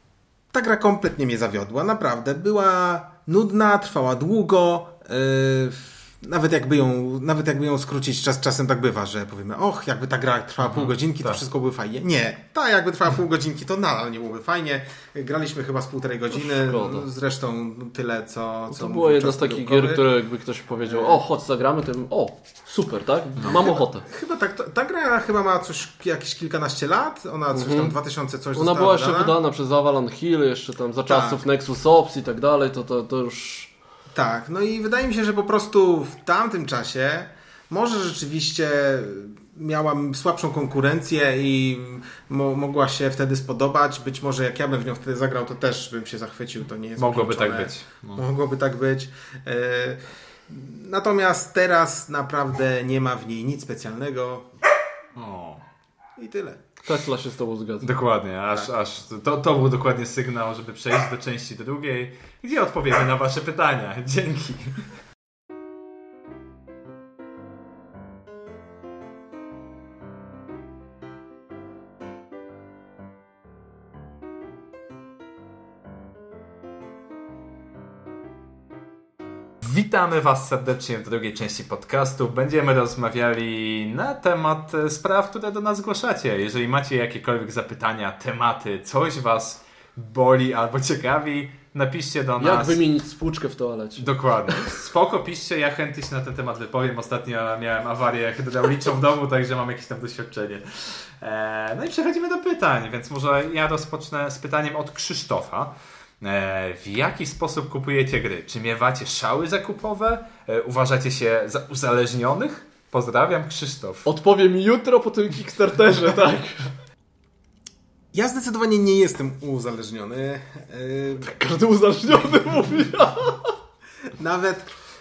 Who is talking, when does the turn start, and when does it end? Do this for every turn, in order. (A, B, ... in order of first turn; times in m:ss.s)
0:00.5-0:20.0 A
0:10.6-0:11.4 B
0:16.4-0:17.1 C
0:18.7-0:24.0 C
0:20.9-0:21.2 A
0:23.5-0:29.4 A
0:27.5-0:27.9 C
0:28.6-0:33.7 C
0:31.1-0:31.4 A
0:34.1-0:54.5 A
0:47.0-0:48.2 B
0:55.2-0:55.6 B
0:56.2-0:56.6 A
0:56.8-0:57.9 C
0:57.8-1:04.8 B
1:19.6-1:32.8 B
1:32.4-1:34.8 C
1:34.0-1:54.1 B
1:54.0-1:56.7 C
1:58.1-2:01.3 A
2:01.2-2:03.5 C
2:04.2-2:04.7 A